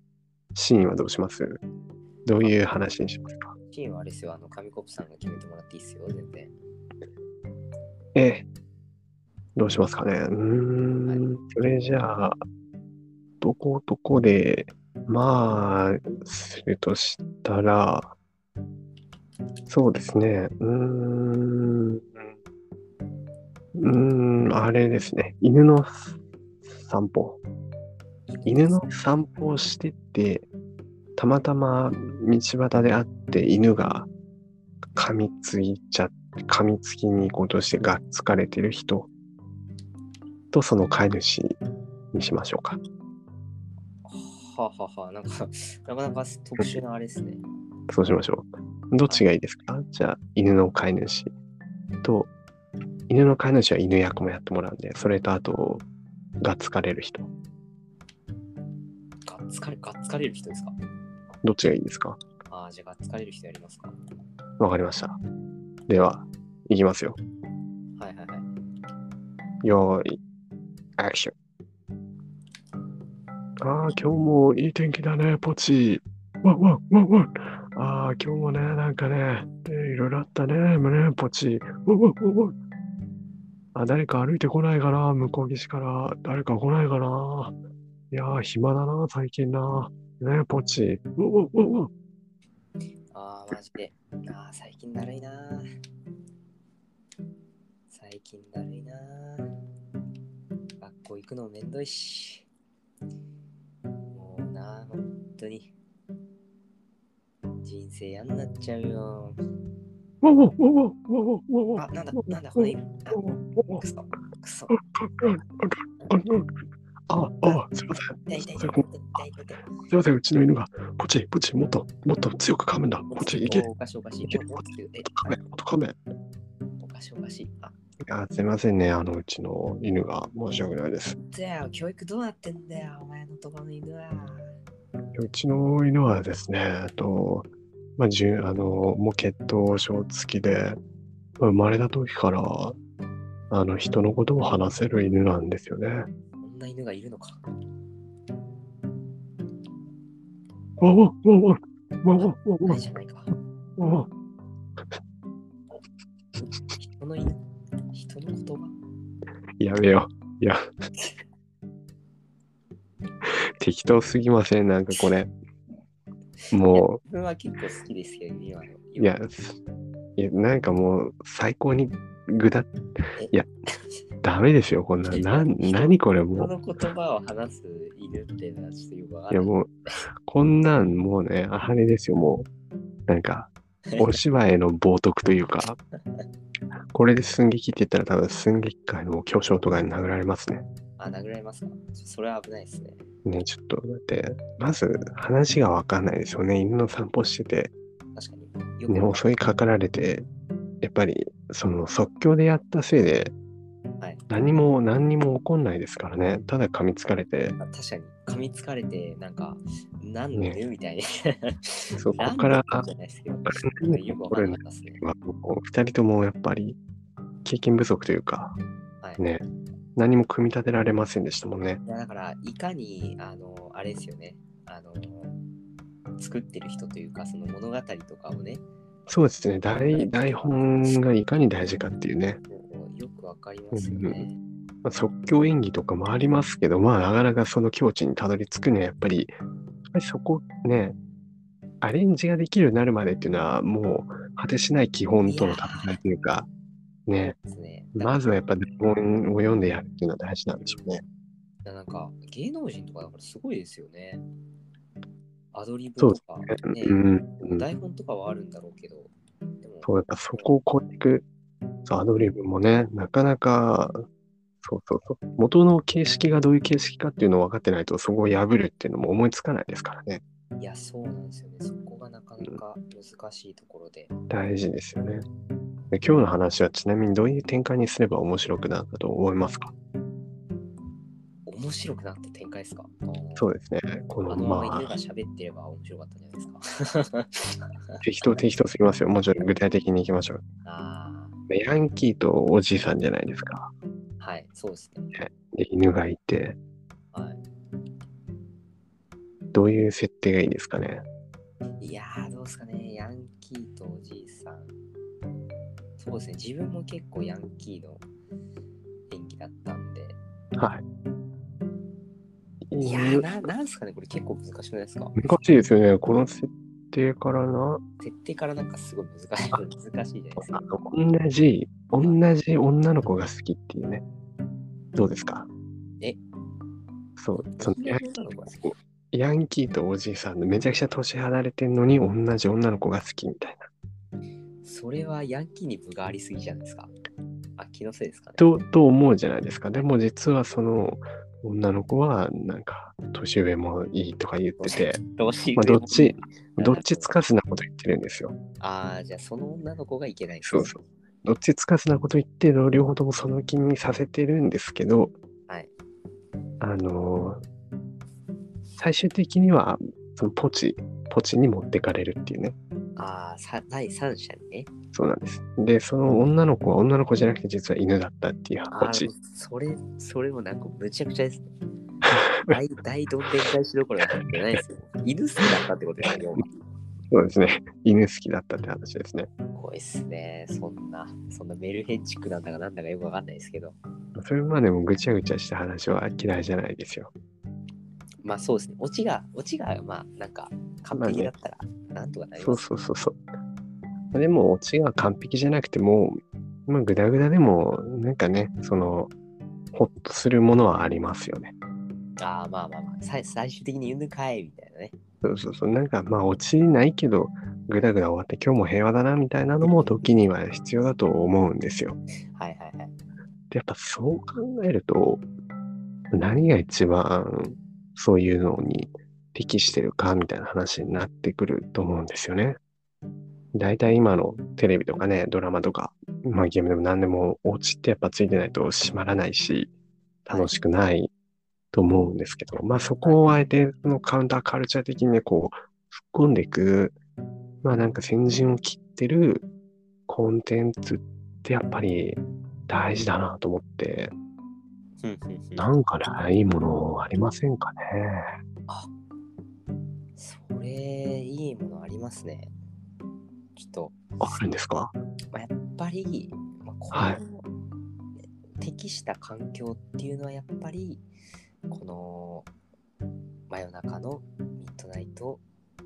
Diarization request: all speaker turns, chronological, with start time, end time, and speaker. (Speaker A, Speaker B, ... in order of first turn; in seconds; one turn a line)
Speaker A: 0.5-1.6
Speaker A: 2.2-3.5
Speaker B: 3.7-6.5
Speaker A: 8.1-8.5
Speaker A: 9.6-12.4
Speaker B: 11.0-11.3
Speaker A: 13.4-18.1
Speaker A: 19.7-22.2
Speaker A: 23.8-26.2
Speaker A: 26.7-27.4
Speaker B: 28.3-28.9
Speaker A: 28.4-30.5
Speaker A: 31.2-34.1
Speaker A: 35.0-39.1
Speaker A: 40.5-41.6
Speaker A: 42.1-42.8
Speaker B: 44.0-47.4
Speaker A: 47.9-51.3
Speaker A: 52.0-52.3
Speaker A: 53.1-55.8
Speaker A: 56.4-57.3
Speaker B: 59.2-60.7
Speaker A: 61.4-62.2
Speaker B: 62.5-63.9
Speaker A: 64.6-65.2
Speaker A: 65.9-67.2
Speaker B: 68.0-68.5
Speaker A: 69.6-70.2
Speaker A: 71.0-71.3
Speaker A: 73.6-82.5
Speaker A: 83.7-87.5
Speaker A: 88.1-91.9
Speaker B: 93.1-95.6
Speaker B: 97.9-99.5
Speaker B: 100.8-102.5
Speaker B: 104.1-105.7
Speaker B: 107.6-109.4
Speaker A: 110.2-113.8
Speaker B: 111.7-114.8
Speaker A: 114.7-116.5
Speaker A: 117.1-118.8
Speaker B: 118.3-119.7
Speaker A: 119.9-123.7
Speaker B: 123.1-125.4
Speaker A: 124.3-126.0
Speaker B: 126.8-127.7
Speaker A: 128.0-131.2
Speaker B: 131.2-134.5
Speaker A: 135.2-140.8
Speaker A: 141.4-142.8
Speaker A: 143.5-146.1
Speaker B: 146.4-147.4
Speaker A: 150.8-152.8
Speaker B: 152.2-153.3
Speaker A: 153.8-154.1
Speaker B: 156.7-157.4
Speaker B: 157.9-158.7
Speaker A: 159.6-160.6
Speaker A: 163.2-165.3
Speaker A: 166.5-167.0
Speaker B: 166.7-169.1
Speaker A: 169.0-169.6
Speaker A: 170.2-172.7
Speaker A: 174.2-176.5
Speaker B: 175.1-179.5
Speaker A: 179.3-179.7
Speaker A: 180.3-182.5
Speaker A: 183.1-185.8
Speaker A: 186.9-190.6
Speaker B: 191.0-193.0
Speaker A: 193.2-197.7
Speaker B: 198.1-199.2
Speaker A: 198.9-200.3
Speaker A: 200.8-203.3
Speaker A: 204.3-207.6
Speaker B: 207.6-215.0
Speaker A: 210.3-210.6
Speaker A: 211.9-212.9
Speaker A: 213.4-216.8
Speaker A: 217.4-218.6
Speaker A: 219.2-219.4
Speaker A: 219.9-221.8
Speaker B: 221.8-225.3
Speaker B: 226.2-228.6
Speaker A: 229.1-232.4
Speaker B: 229.7-231.0
Speaker B: 232.5-234.4
Speaker A: 233.7-234.2
Speaker A: 234.8-239.3
Speaker A: 239.9-240.9
Speaker A: 241.8-246.5
Speaker B: 245.2-246.0
Speaker A: 247.1-247.3
Speaker B: 247.2-248.3
Speaker A: 247.9-251.0
Speaker B: 250.6-250.9
Speaker B: 251.6-254.2
Speaker B: 255.5-259.9
Speaker A: 256.0-257.7
Speaker A: 259.8-261.2
Speaker A: 261.9-264.0
Speaker A: 264.6-270.2
Speaker B: 270.6-274.1
Speaker A: 274.3-275.2
Speaker A: 275.9-279.7
Speaker B: 281.4-283.5
Speaker A: 283.4-285.0
Speaker B: 284.3-288.0
Speaker A: 288.0-290.4
Speaker B: 290.6-291.3
Speaker A: 291.5-293.7
Speaker B: 294.2-295.1
Speaker A: 295.1-296.6
Speaker B: 297.1-297.4
Speaker A: 299.5-301.0
Speaker B: 301.8-304.7
Speaker B: 306.0-308.0
Speaker B: 309.1-310.2
Speaker A: 310.6-310.8
Speaker A: 312.7-313.3
Speaker B: 312.8-315.1
Speaker A: 315.1-317.8
Speaker B: 318.0-320.6
Speaker A: 320.4-324.0
Speaker A: 324.9-325.5
Speaker A: 327.2-328.1
Speaker B: 327.5-328.7
Speaker A: 328.6-333.7
Speaker B: 334.6-336.9
Speaker B: 337.6-338.4
Speaker A: 338.4-345.0
Speaker B: 344.6-347.2
Speaker A: 345.5-348.3
Speaker B: 348.6-350.8
Speaker A: 350.4-355.1
Speaker A: 356.6-357.4
Speaker A: 358.8-362.5
Speaker B: 362.9-364.7
Speaker A: 364.9-369.1
Speaker B: 368.7-371.4
Speaker B: 372.5-376.4
Speaker A: 377.1-379.3
Speaker B: 379.5-383.7
Speaker A: 384.1-387.1
Speaker B: 388.2-392.6
Speaker A: 390.9-391.3
Speaker A: 392.4-393.2
Speaker A: 394.1-399.1
Speaker A: 399.7-401.5
Speaker B: 402.2-404.9
Speaker A: 405.2-412.0
Speaker B: 412.3-412.9
Speaker A: 413.5-415.2
Speaker A: 416.1-422.6
Speaker A: 423.5-429.7
Speaker A: 430.2-431.1
Speaker A: 431.7-436.9
Speaker B: 433.0-433.5
Speaker A: 437.6-439.5
Speaker A: 440.1-444.1
Speaker B: 445.0-445.7
Speaker A: 445.6-448.2
Speaker B: 450.1-452.5
Speaker B: 453.5-454.1
Speaker A: 454.2-454.9
Speaker B: 455.3-457.4
Speaker A: 456.9-457.2
Speaker B: 458.6-461.0
Speaker B: 461.7-462.5
Speaker B: 463.5-465.4